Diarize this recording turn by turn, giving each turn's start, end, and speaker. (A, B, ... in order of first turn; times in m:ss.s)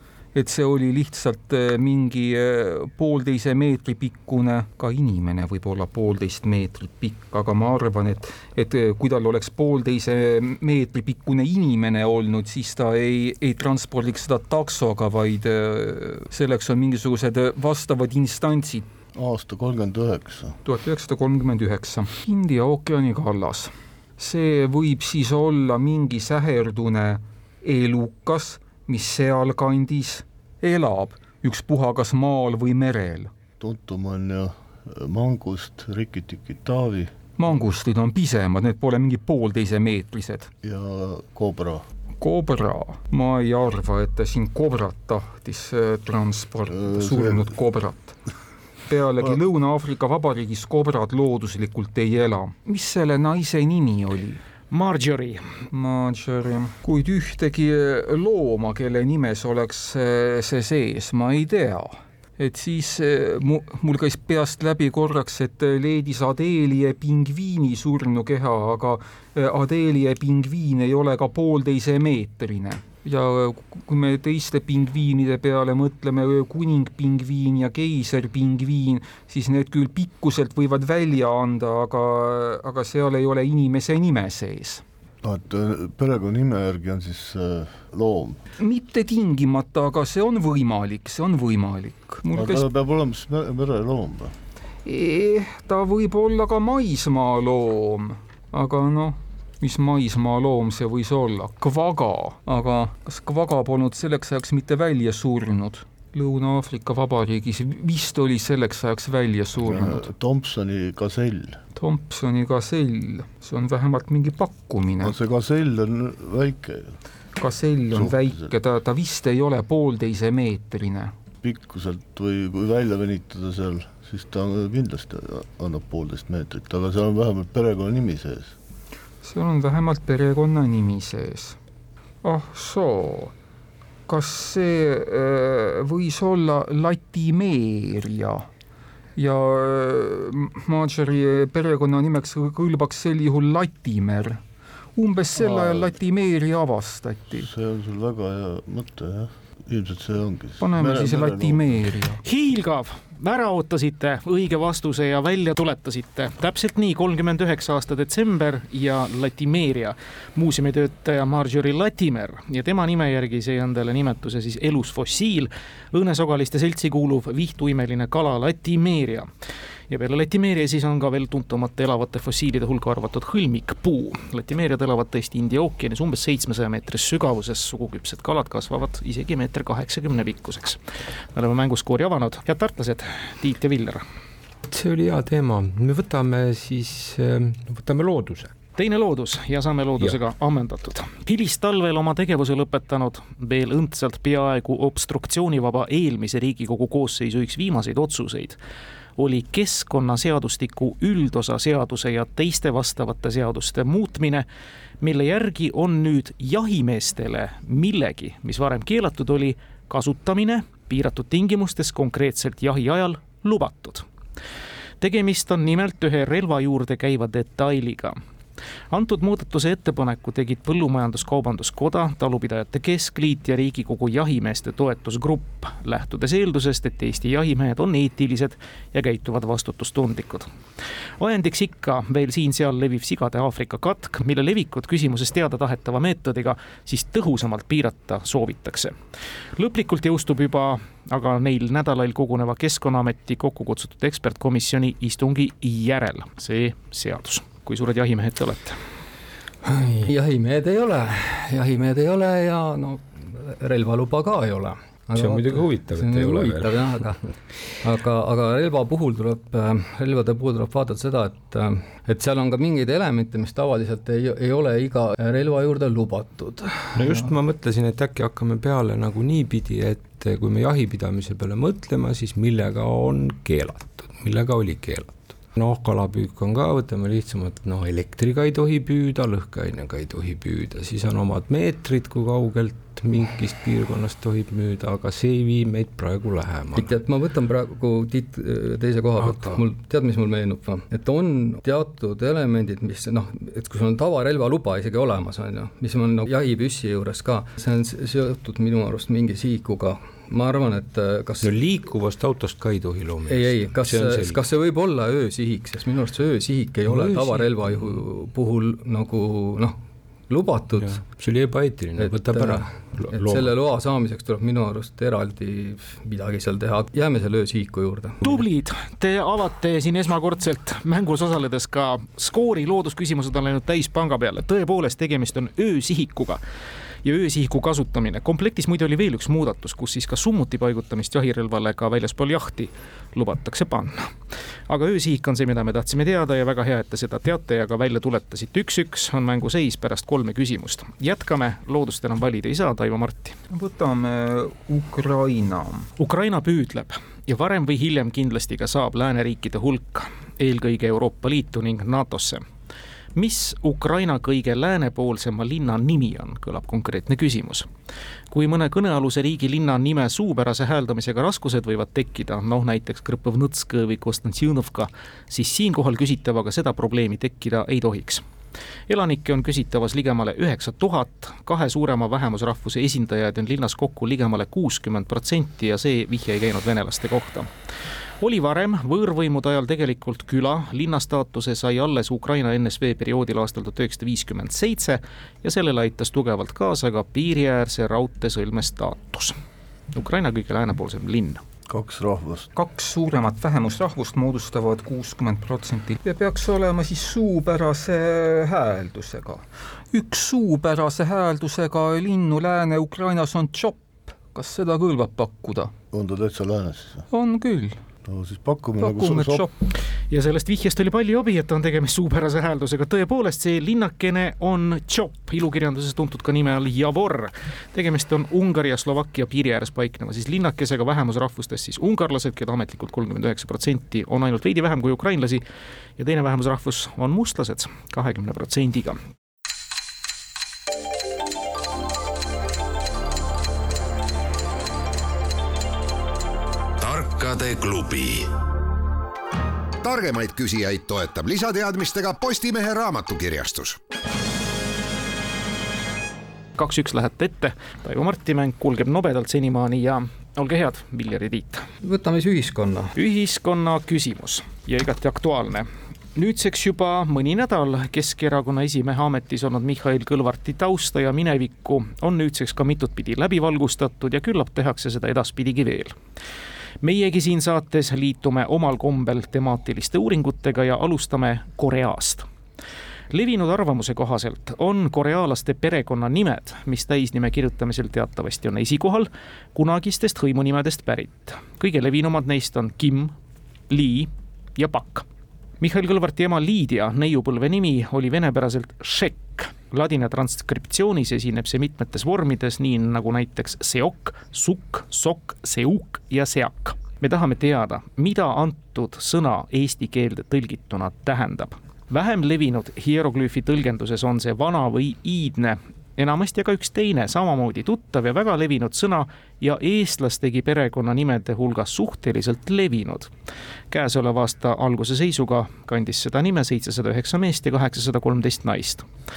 0:00.4-0:18.9 A
0:19.2-0:20.6 B
0:20.6-0:33.3 A
0:33.6-0:37.1 B
0:37.4-0:40.5 A
0:40.6-0:41.8 B
0:42.2-0:48.2 A
0:46.7-0:47.5 B
0:48.9-0:54.4 A
0:54.7-0:55.4 C
0:55.7-1:24.8 A
1:25.2-1:28.4 B
1:28.6-1:32.7 A
1:32.3-1:34.3 B
1:34.8-1:50.1 A
1:49.6-1:51.6 B
1:51.8-1:55.2 A
1:55.0-1:57.0 B
1:57.4-2:01.1 A
1:57.9-1:58.5 B
2:01.4-2:08.6 B
2:09.2-2:11.6 A
2:12.2-2:13.3 A
2:14.1-2:18.5 A
2:19.2-2:24.4 A
2:25.0-2:27.5 A
2:25.4-2:26.0 B
2:27.3-2:31.9 B
2:30.6-2:32.2 A
2:32.2-2:49.3 C
2:49.9-3:00.8 C
3:01.3-3:04.0 C
3:04.7-3:08.6 D
3:08.8-3:18.6 C
3:19.2-3:24.4 C
3:25.0-3:34.1 C
3:35.0-3:38.2 C
3:38.9-3:50.5 C
3:51.2-3:59.0 C
3:59.6-4:08.8 C
4:09.6-4:27.3 E
4:15.2-4:17.0 D
4:26.9-4:47.0 D
4:46.8-5:01.5 E
4:49.2-4:49.6 D
5:01.4-5:04.4 D
5:03.3-5:11.0 E
5:06.8-5:08.0 D
5:10.8-5:13.6 D
5:12.0-5:18.4 E
5:18.2-5:26.4 C
5:27.0-5:34.1 C
5:34.7-5:43.4 C
5:43.5-5:45.9 A
5:46.0-5:52.4 C
5:53.2-5:57.7 C
5:58.3-6:08.2 C
6:08.9-6:17.5 C
6:18.2-6:29.4 C
6:29.9-6:31.4 C
6:31.7-6:32.5 B
6:32.6-6:45.7 A
6:45.9-6:47.1 B
6:47.1-6:47.8 A
6:48.1-6:49.5 B
6:48.8-6:49.5 A
6:50.1-7:05.4 C
7:06.0-7:09.0 C
7:16.8-7:18.3 F
7:19.8-7:23.8 F
7:26.6-7:31.6 C
7:31.8-7:32.9 E
7:32.9-7:46.0 C
7:46.8-7:52.3 C
7:53.1-8:03.1 C
8:03.7-8:05.1 C
8:05.6-8:33.1 C
8:33.7-8:38.9 C